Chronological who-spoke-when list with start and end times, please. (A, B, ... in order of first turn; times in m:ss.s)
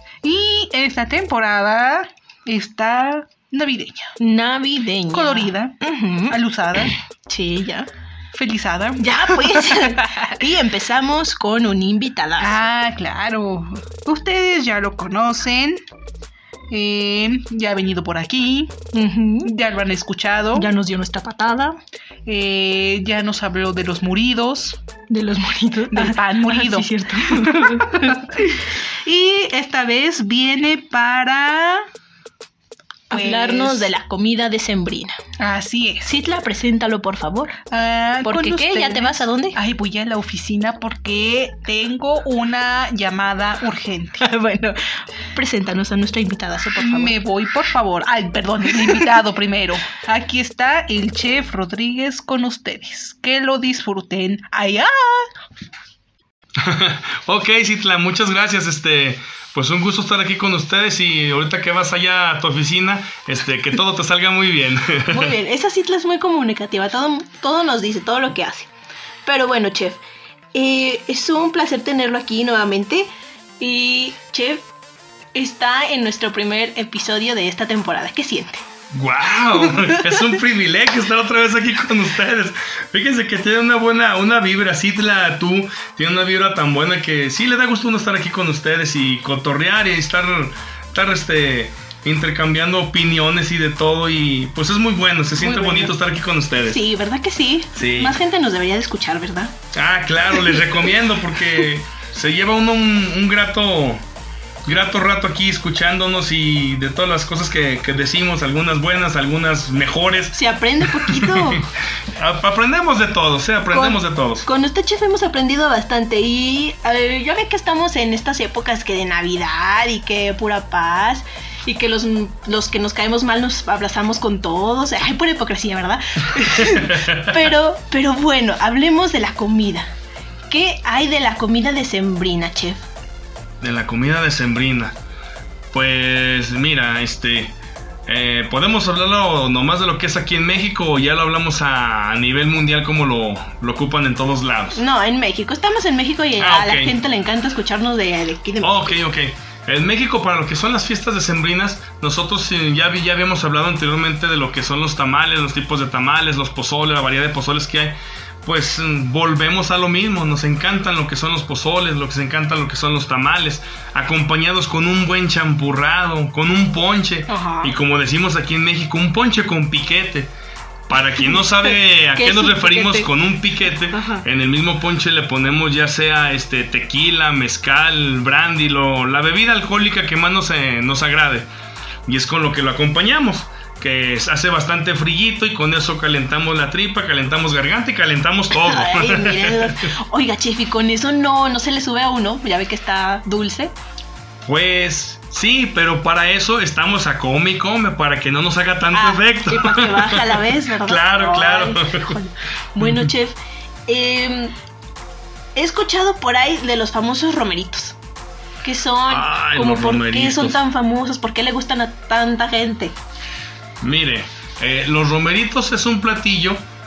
0:00.2-0:04.1 A
0:04.2-0:07.9 B
0:05.1-0:06.9 A
0:08.3-0:10.4 A
0:09.0-0:12.6 B
0:12.4-0:15.8 A
0:16.7-0:18.7 A
0:18.9-0:19.5 B
0:19.4-0:20.7 A
0:20.5-0:21.8 B
0:22.2-0:24.8 A
0:25.1-0:28.5 B
0:25.9-0:28.4 A
0:29.0-0:31.9 A
0:33.1-0:33.9 A
0:33.1-0:35.2 B
0:35.4-0:36.1 A
0:36.0-0:37.6 B
0:37.7-0:44.2 A
0:38.2-0:39.6 B
0:44.2-0:47.2 B
0:46.8-0:55.3 A
0:48.7-0:49.1 B
0:56.6-1:05.3 C
1:05.1-1:08.7 B
1:09.2-1:10.0 B
1:10.5-1:13.1 B
1:13.6-1:14.6 B
1:15.3-1:18.6 B
1:18.9-1:36.8 C
1:19.7-1:20.0 B
1:35.4-1:35.9 B
1:36.6-1:39.5 B
1:37.7-1:38.2 C
1:39.7-1:44.0 C
1:44.6-1:54.4 C
1:50.3-1:51.6 B
1:53.7-2:09.9 B
2:06.6-2:07.4 C
2:10.5-2:12.9 B
2:13.6-2:15.0 C
2:15.7-2:17.6 C
2:18.1-2:24.8 C
2:24.7-2:29.0 B
2:26.4-2:27.0 C
2:28.6-2:50.3 C
2:47.3-2:47.7 B
2:50.9-3:01.5 C
2:51.1-2:53.1 B
2:53.9-2:54.2 B
3:02.1-3:09.9 C
3:08.5-3:13.7 B
3:14.4-3:22.2 C
3:18.9-3:23.4 B
3:22.8-3:23.1 C
3:23.9-3:24.5 B
3:25.6-3:28.0 B
3:28.6-3:33.0 B
3:29.1-3:30.6 C
3:33.8-3:36.6 C